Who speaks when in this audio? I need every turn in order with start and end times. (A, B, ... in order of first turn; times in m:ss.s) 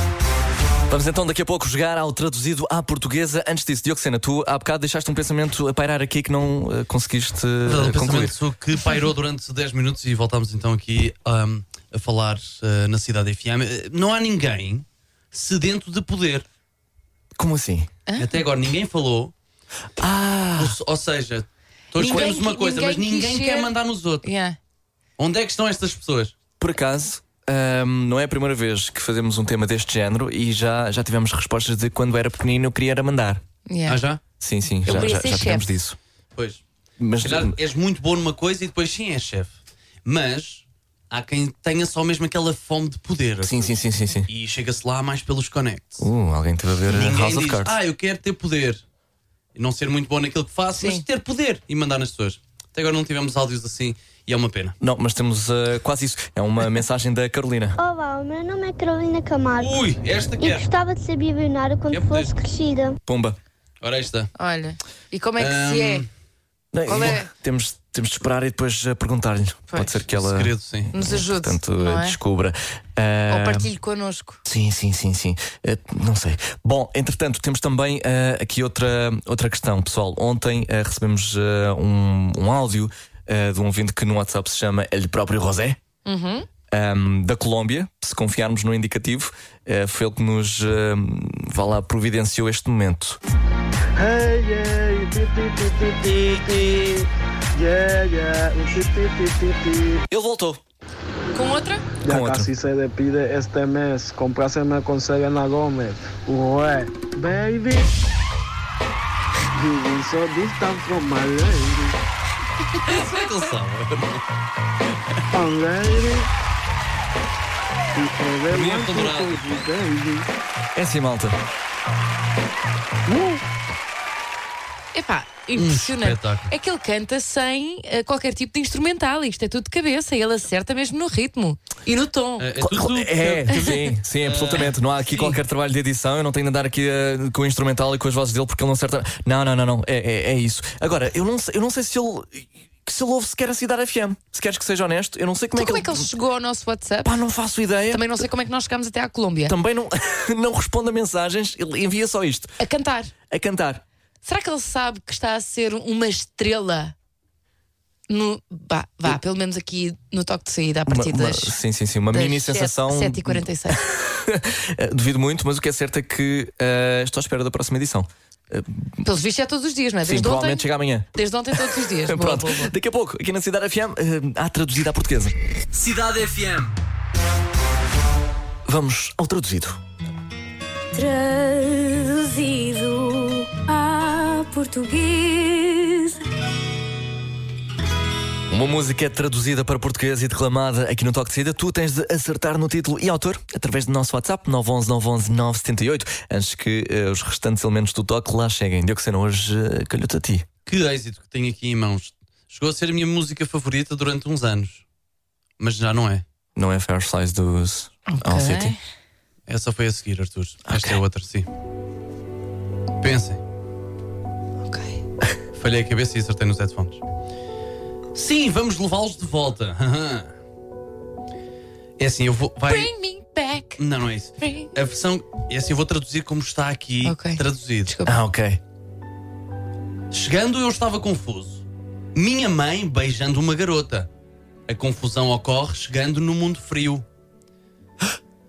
0:00.9-0:08.4 A
0:07.6-0:16.4 B
0:17.4-0:17.9 A
0:18.2-0:19.3 B
0:20.0-0:20.8 A
0:20.6-0:24.2 B
0:22.0-0:23.7 C
0:24.2-0:24.6 C
0:25.2-0:26.3 B
0:26.6-0:33.4 A
0:33.7-0:34.0 C
0:33.9-0:34.2 B
0:34.4-0:36.0 A
0:34.8-0:35.7 C
0:36.4-0:36.6 B
0:37.0-0:37.5 A
0:37.2-0:43.8 B
0:43.4-0:44.3 A
0:44.3-0:46.1 B
0:46.0-0:47.7 A
0:46.9-0:48.8 B
0:49.5-0:54.8 B
0:50.8-0:51.0 C
0:54.8-0:57.8 A
0:57.8-0:59.8 D
0:59.6-1:00.7 B
1:00.4-1:03.0 D
1:01.9-1:02.3 B
1:03.0-1:03.4 A
1:03.8-1:04.3 B
1:04.4-1:06.0 C
1:05.4-1:06.1 B
1:06.7-1:13.7 A
1:06.8-1:07.3 C
1:09.7-1:10.0 C
1:10.1-1:10.9 B
1:10.9-1:12.2 C
1:13.3-1:14.4 C
1:14.4-1:25.8 A
1:26.0-1:26.4 C
1:26.7-1:33.2 A
1:34.0-1:40.0 E
1:40.1-1:40.6 A
1:41.3-1:41.8 C
1:42.0-1:47.9 E
1:42.0-1:42.5 A
1:49.5-1:52.0 E
1:52.8-1:54.2 B
1:55.3-1:56.3 E
1:57.9-2:00.3 E
1:58.5-1:59.6 B
2:00.7-2:01.4 A
2:03.1-2:03.4 E
2:04.9-2:12.5 C
2:05.5-2:06.5 B
2:12.4-2:15.4 B
2:12.6-2:26.1 A
2:25.5-2:27.1 C
2:27.0-2:28.3 A
2:27.9-2:29.5 C
2:29.5-2:32.5 A
2:32.6-2:33.1 C
2:33.3-2:33.8 A
2:34.2-2:36.9 C
2:38.1-2:41.5 C
2:40.8-2:49.1 A
2:42.1-2:43.8 C
2:49.0-2:52.7 C
2:50.0-2:55.4 A
2:55.7-2:56.7 F
2:58.6-2:59.8 A
3:01.0-3:06.0 D
3:01.7-3:02.2 F
3:03.6-3:05.9 F
3:08.5-3:20.4 A
3:20.6-3:24.8 B
3:25.6-3:26.2 B
3:26.6-3:28.8 A
3:28.1-3:28.8 C
3:29.5-3:31.5 B
3:30.7-3:31.0 A
3:33.0-3:33.4 B
3:34.6-3:35.0 C
3:35.5-3:37.0 B
3:38.1-3:40.3 B
3:42.0-3:42.9 B
3:42.7-3:43.8 C
3:43.8-3:47.9 B
3:44.4-3:44.7 C
3:47.0-3:48.2 C
3:48.0-3:48.6 A
3:50.1-3:51.6 B
3:52.1-3:54.1 B
3:54.7-3:57.0 B